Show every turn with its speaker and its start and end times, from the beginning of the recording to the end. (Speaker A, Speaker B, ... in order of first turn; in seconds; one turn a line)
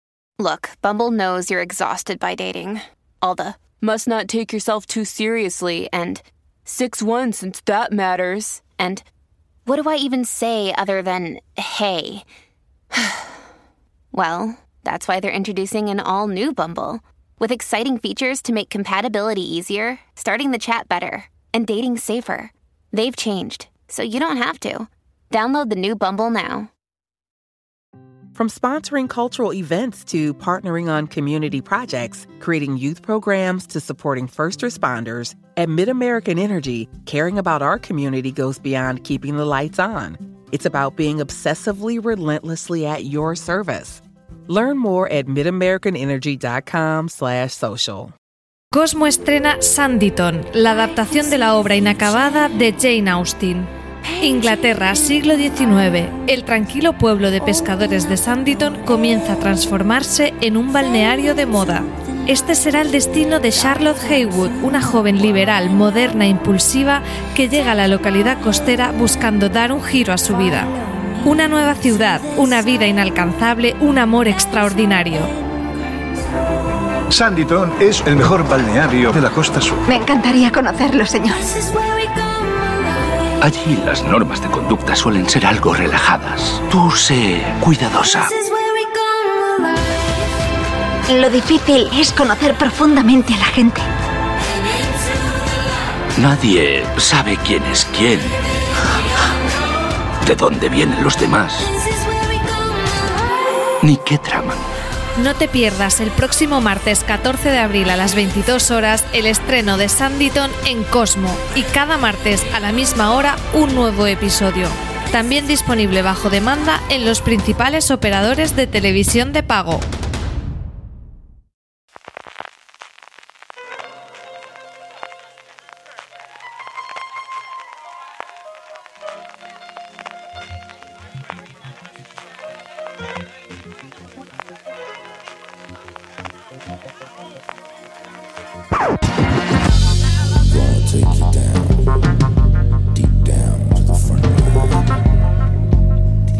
Speaker A: 0.4-9.0
Speaker A: 9.7-12.2
Speaker A: 12.9-13.4
Speaker A: 14.1-26.7
Speaker B: 28.3-48.1
Speaker C: 48.7-75.3
Speaker D: 77.2-79.8
Speaker E: 79.9-81.5
Speaker F: 83.4-88.3
Speaker E: 91.1-93.8
Speaker F: 96.2-98.4
Speaker F: 100.2-101.7
Speaker F: 103.8-104.6
Speaker C: 105.2-119.8
Speaker F: 140.6-141.3
Speaker F: 143.4-143.9